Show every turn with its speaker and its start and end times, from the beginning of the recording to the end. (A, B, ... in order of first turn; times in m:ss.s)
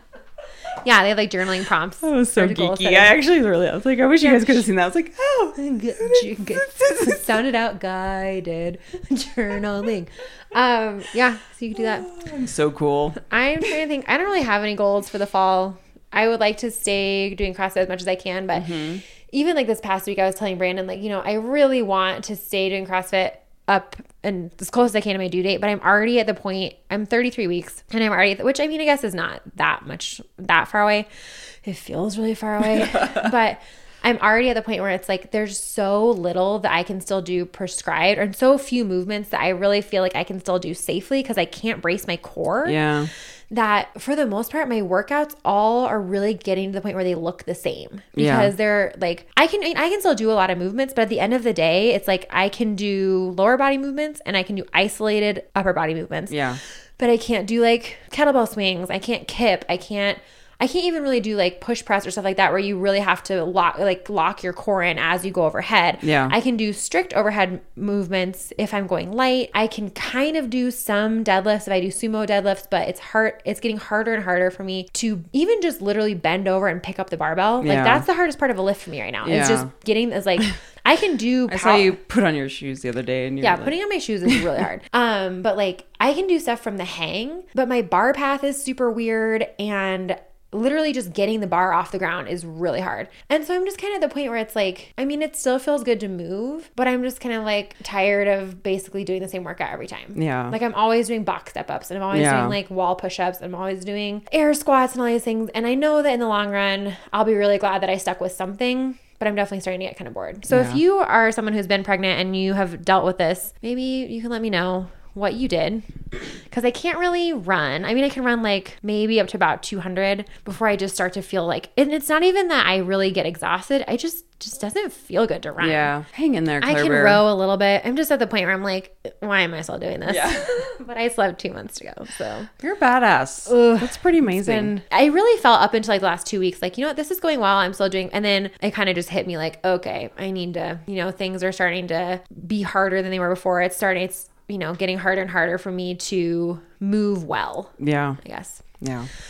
0:00.8-0:03.2 A
0:02.0-0:07.4 B
0:04.2-0:04.6 A
0:05.6-0:12.1 A
0:11.8-0:13.2 B
0:13.2-0:31.1 A
0:18.5-0:19.0 B
0:31.6-0:42.8 A
0:32.7-0:33.3 B
0:42.6-0:43.1 B
0:43.5-0:56.4 A
0:48.2-0:48.5 B
0:56.3-0:56.6 B
0:57.0-1:21.9 A
1:06.0-1:06.3 B
1:17.6-1:18.0 B
1:19.2-1:19.7 B
1:21.5-1:23.8 B
1:23.4-1:55.9 A
1:40.2-1:40.6 B
1:42.1-1:42.6 B
1:50.5-1:50.8 B
1:56.5-2:05.9 A
2:05.6-2:07.2 B
2:06.6-2:12.5 A
2:10.1-2:10.4 B
2:12.6-2:14.7 B
2:13.5-2:28.6 A
2:27.8-2:28.2 B
2:28.8-2:29.1 B